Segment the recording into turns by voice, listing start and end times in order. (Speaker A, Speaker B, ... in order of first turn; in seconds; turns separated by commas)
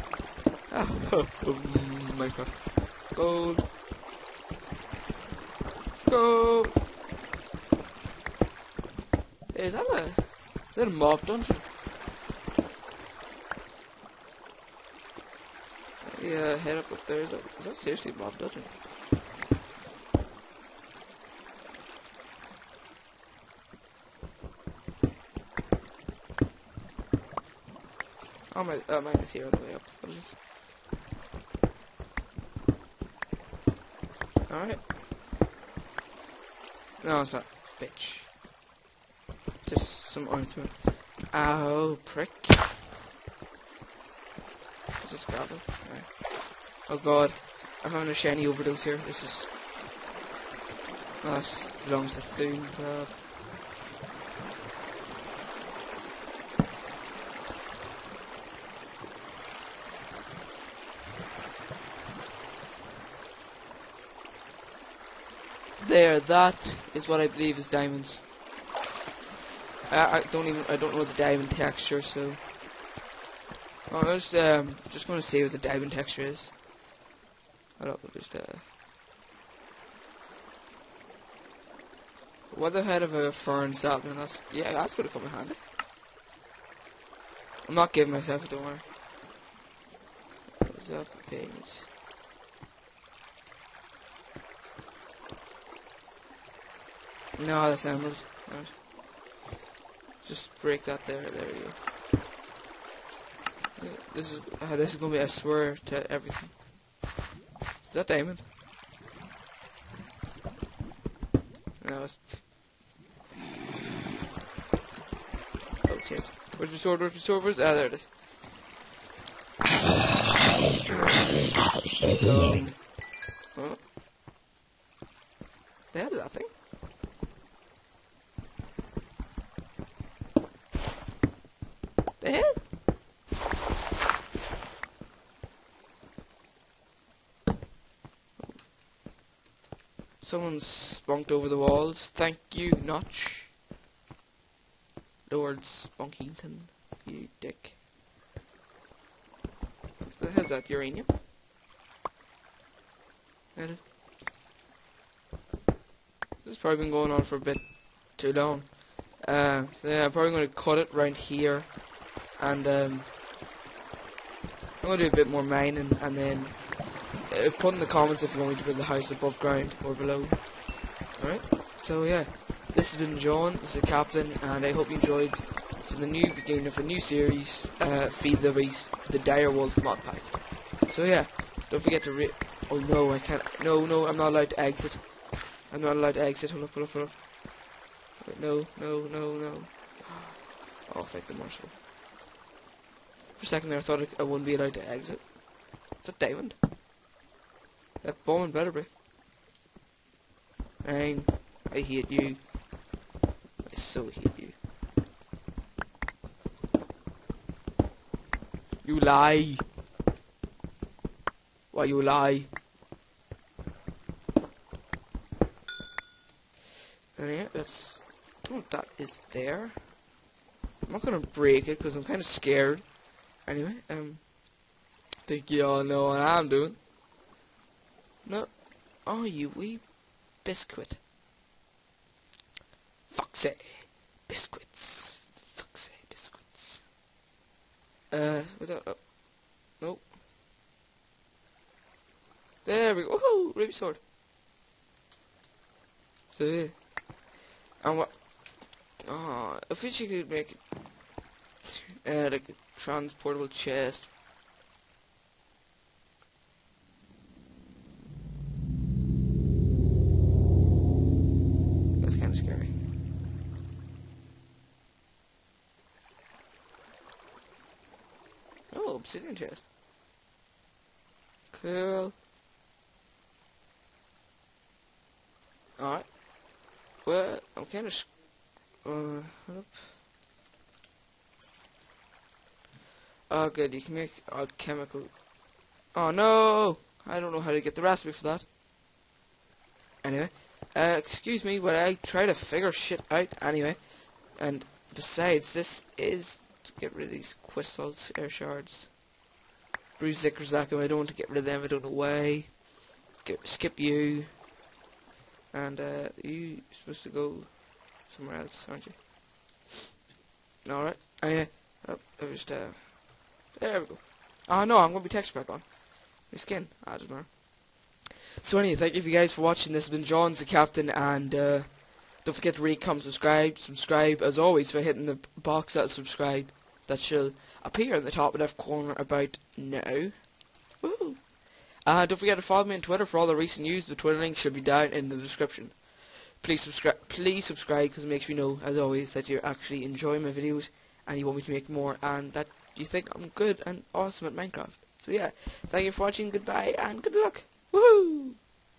Speaker A: 0.7-3.7, Speaker A: 6.0-6.8, Speaker A: 9.5-11.7, Speaker A: 16.0-18.7, Speaker A: 28.5-30.4, Speaker A: 34.5-34.9, Speaker A: 37.0-38.3, Speaker A: 39.6-42.7, Speaker A: 45.0-49.5, Speaker A: 51.2-53.2, Speaker A: 65.8-68.3, Speaker A: 69.9-72.5, Speaker A: 73.9-76.6, Speaker A: 77.8-78.7, Speaker A: 82.5-85.6, Speaker A: 87.7-88.8, Speaker A: 90.6-91.9, Speaker A: 97.4-98.8, Speaker A: 100.2-101.8, Speaker A: 103.8-106.6, Speaker A: 107.8-108.5, Speaker A: 111.8-112.5, Speaker A: 115.8-118.1, Speaker A: 122.1-122.9, Speaker A: 123.5-123.8, Speaker A: 125.9-126.5, Speaker A: 132.2-132.7, Speaker A: 140.2-143.5, Speaker A: 145.3-147.8, Speaker A: 150.1-151.1, Speaker A: 153.6-153.8, Speaker A: 156.4-161.8, Speaker A: 162.3-163.1, Speaker A: 164.8-170.5, Speaker A: 171.1-187.2, Speaker A: 188.2-191.8, Speaker A: 193.4-195.4, Speaker A: 196.0-196.6, Speaker A: 198.0-198.9, Speaker A: 200.8-202.5, Speaker A: 203.6-204.6, Speaker A: 208.8-209.7, Speaker A: 211.7-212.5, Speaker A: 217.2-219.9, Speaker A: 220.8-224.3, Speaker A: 225.2-226.8, Speaker A: 228.2-231.0, Speaker A: 233.1-236.9, Speaker A: 238.1-239.1, Speaker A: 239.7-240.1, Speaker A: 242.6-244.0, Speaker A: 246.3-246.9, Speaker A: 247.8-250.7, Speaker A: 252.0-254.1, Speaker A: 262.0-262.7, Speaker A: 268.7-269.6, Speaker A: 271.5-272.2, Speaker A: 275.8-276.2, Speaker A: 277.0-278.2, Speaker A: 278.8-279.8, Speaker A: 283.3-285.2, Speaker A: 285.9-288.5, Speaker A: 290.0-298.9, Speaker A: 300.0-302.6, Speaker A: 303.2-304.4, Speaker A: 305.5-309.0, Speaker A: 310.6-317.4, Speaker A: 318.4-331.3, Speaker A: 331.8-348.5